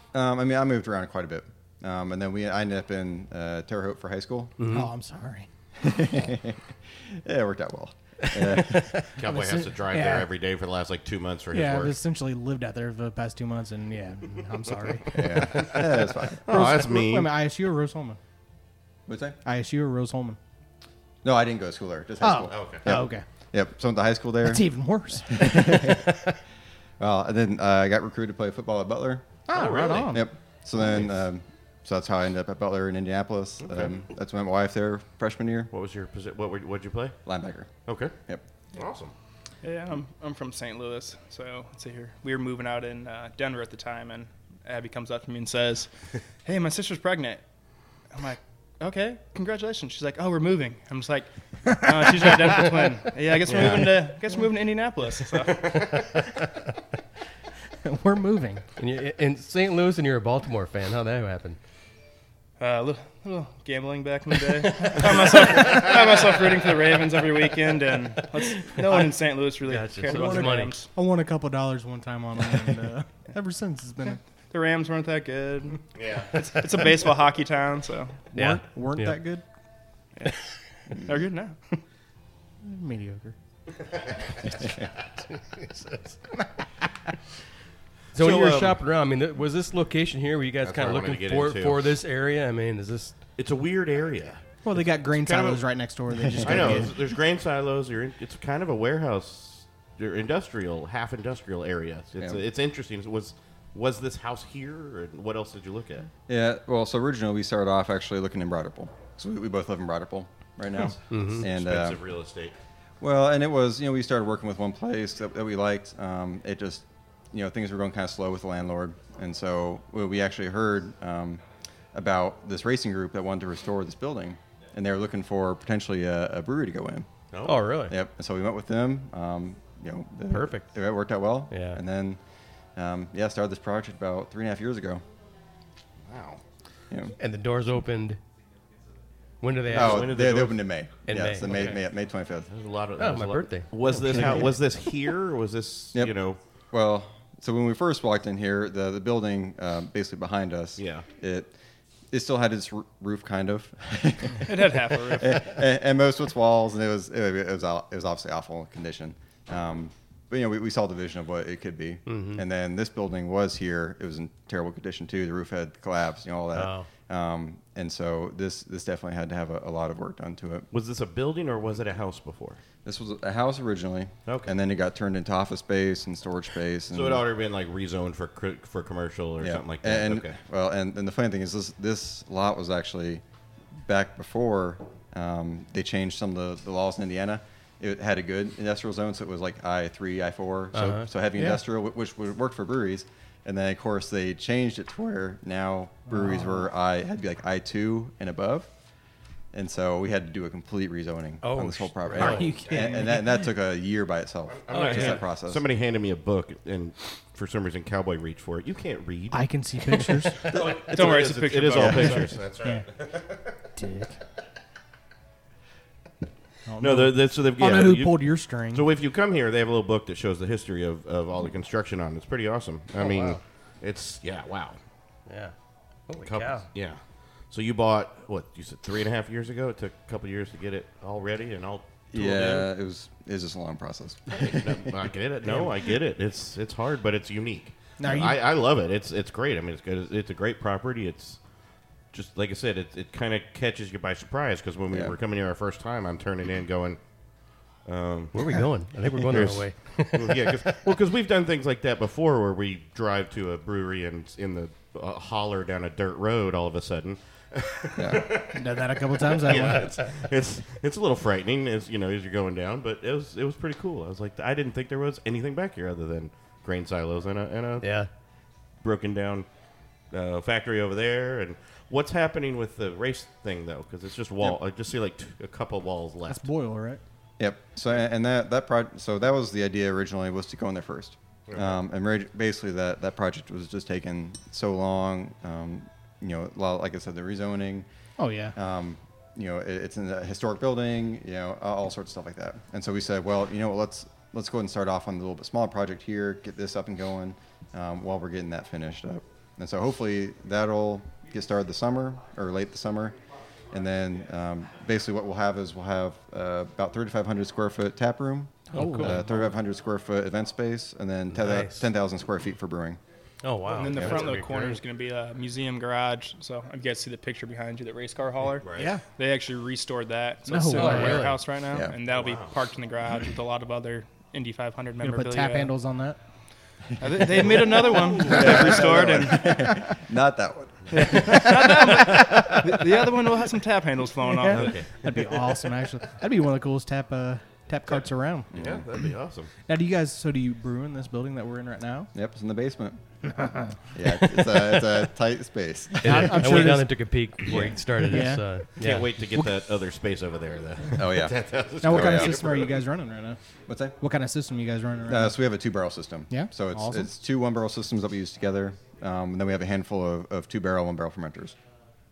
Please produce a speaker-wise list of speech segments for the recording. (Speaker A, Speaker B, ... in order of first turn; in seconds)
Speaker A: 0.1-4.5, 5.8-9.0, 15.1-16.6, 19.1-19.4, 21.2-24.7, 25.3-26.2, 27.0-29.3, 30.1-35.7, 37.3-38.4, 53.5-54.0, 96.2-96.9, 106.3-112.0, 113.0-127.1, 127.9-132.2, 132.8-135.0, 136.9-137.2, 139.7-142.5, 144.0-144.5, 146.7-151.5, 152.1-170.7, 172.8-177.2, 179.4-183.2, 183.8-198.7, 199.5-205.6, 211.8-212.2, 232.1-234.8, 244.9-245.2, 258.0-258.4, 277.4-287.9, 288.6-303.2, 303.7-313.0, 321.7-322.0, 327.4-327.7, 328.2-332.2, 338.5-338.9, 342.1-343.0, 343.9-346.7, 350.9-352.6, 353.7-354.0, 355.1-361.6
Speaker B: 4.6-4.9, 58.8-61.6, 64.8-65.8, 68.4-69.1, 69.6-70.7, 78.3-79.2, 85.5-86.2, 88.2-93.2, 111.1-111.4, 127.5-128.0, 130.3-130.7, 131.5-131.8, 137.2-138.2, 139.4-140.1, 141.1-141.8, 143.0-143.7, 162.1-162.4, 166.5-166.9, 190.7-191.1, 201.4-202.6, 204.7-205.2, 223.0-223.3, 225.3-225.5, 226.1-226.7, 248.3-250.8, 267.8-268.1, 308.7-309.2, 311.3-311.9, 313.4-314.8, 320.7-321.4, 346.0-349.1
Speaker C: 4.7-5.5, 8.5-10.3, 11.5-18.2, 19.4-20.4, 22.2-23.2, 24.4-26.1, 29.5-30.3, 51.9-52.9, 57.9-58.6, 70.0-74.2, 78.3-79.4, 82.6-83.3, 94.6-96.9, 196.1-196.6, 202.2-203.4, 209.3-210.5, 213.8-214.2, 216.7-218.9, 238.0-238.4, 258.5-259.9, 276.3-277.0, 288.2-288.6, 308.7-309.3, 318.8-319.0, 320.5-321.3, 325.0-326.2, 328.3-328.6, 334.2-338.5, 339.7-342.1, 343.4-343.7, 346.0-347.0, 347.5-348.6, 351.8-353.4, 354.0-355.4, 356.3-357.1
Speaker D: 9.2-12.0, 15.1-15.9, 16.4-17.3, 22.5-22.9, 29.5-31.2, 33.7-34.0, 35.7-37.2, 37.9-38.1, 38.7-39.1, 76.0-76.3, 88.1-88.8, 90.6-91.8, 93.4-95.7, 96.4-106.1, 111.1-112.6, 127.3-127.7, 136.1-136.4, 139.7-140.7, 141.4-141.7, 142.5-146.4, 150.8-151.1, 170.7-172.6, 174.3-174.5, 176.9-180.4, 202.2-202.8, 204.5-213.6, 216.8-224.8, 226.2-227.0, 227.5-232.7, 234.3-241.4, 242.1-247.0, 247.8-248.4, 249.3-268.0, 268.8-269.5, 270.1-276.5, 281.5-281.8, 313.9-314.3, 318.6-318.9, 322.1-322.6, 334.5-335.2, 338.5-339.5, 347.5-347.8, 348.8-352.8
Speaker E: 39.6-45.9, 46.4-47.4, 48.1-55.7, 62.6-70.9, 74.5-78.2, 81.0-81.8, 154.4-155.6, 210.4-212.3, 313.7-325.7, 327.0-329.6, 330.9-334.8